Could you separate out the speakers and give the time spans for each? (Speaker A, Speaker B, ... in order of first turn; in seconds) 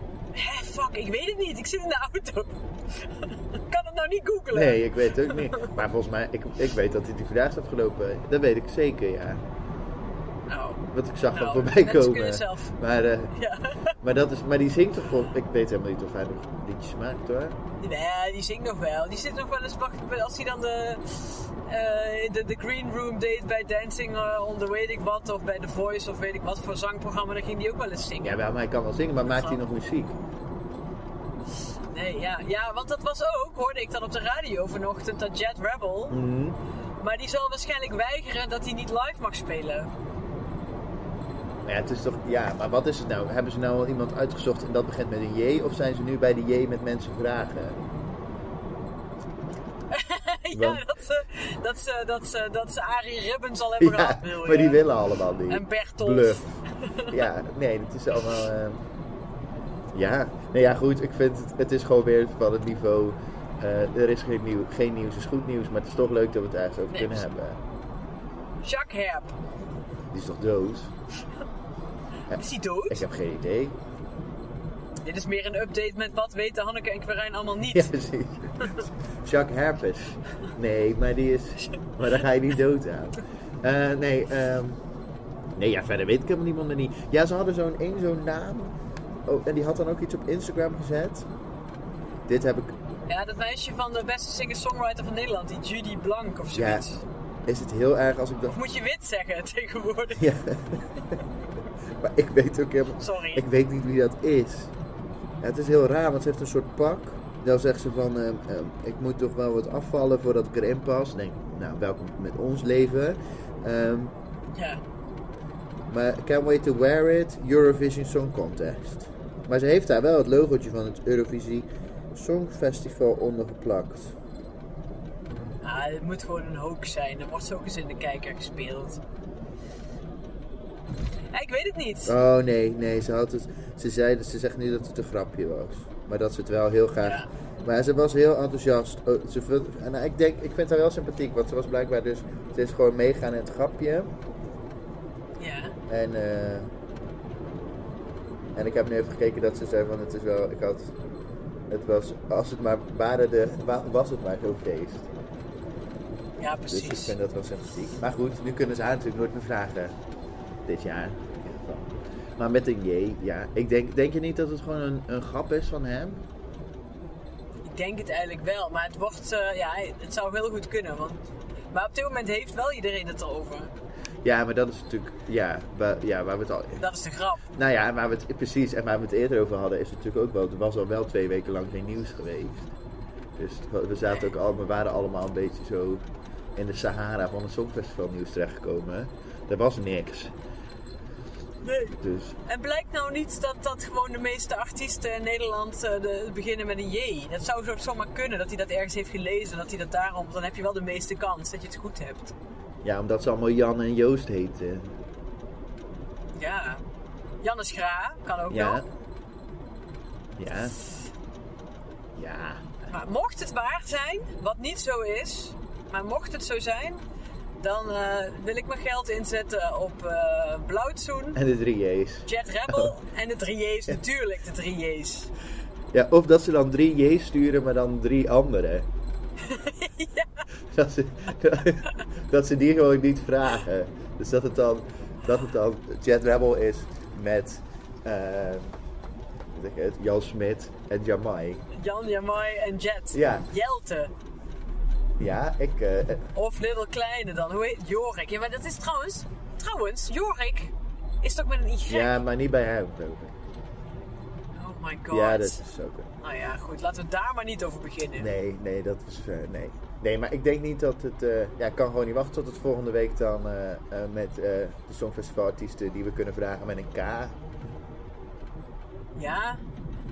Speaker A: 0.3-5.7, 10.5-12.7, 13.3-13.9, 17.8-28.4, 29.2-29.6, 31.9-36.2, 37.0-39.9, 49.9-54.9, 55.5-57.1, 66.9-67.2, 68.6-69.3, 72.3-73.0, 75.0-77.9, 93.1-97.0, 98.5-100.3, 103.0-103.4, 114.5-114.8, 125.6-129.0, 131.3-132.1, 137.0-137.3, 145.4-145.8, 156.4-157.1, 167.6-171.2, 171.7-173.7, 176.8-177.5, 191.6-202.3, 206.3-206.8, 207.4-208.9, 212.8-217.0, 217.6-221.4, 222.2-225.3, 229.4-230.4, 241.7-244.1, 246.3-252.1, 254.6-255.6, 256.2-258.3, 269.1-269.6
Speaker B: 4.5-9.4, 10.9-13.3, 14.0-17.6, 28.2-30.2, 36.1-36.6, 41.6-47.8, 50.5-50.8, 53.8-56.5, 57.1-58.8, 59.9-67.6, 70.1-70.9, 72.3-73.8, 77.7-84.8, 85.5-88.7, 89.2-91.3, 92.3-92.7, 96.5-96.8, 97.5-98.5, 100.2-101.2, 102.0-104.7, 105.4-114.1, 115.9-124.1, 132.1-144.1, 145.9-146.7, 148.6-150.9, 151.7-155.1, 156.7-159.9, 160.7-166.2, 174.2-176.8, 177.5-182.7, 183.3-186.0, 186.6-190.3, 192.0-192.3, 202.8-204.9, 208.5-208.8, 210.4-210.8, 212.1-212.6, 221.3-222.3, 225.9-228.9, 230.7-238.8, 239.5-241.6, 243.1-243.5, 245.2-246.3, 251.9-253.3, 255.1-256.1, 258.2-267.4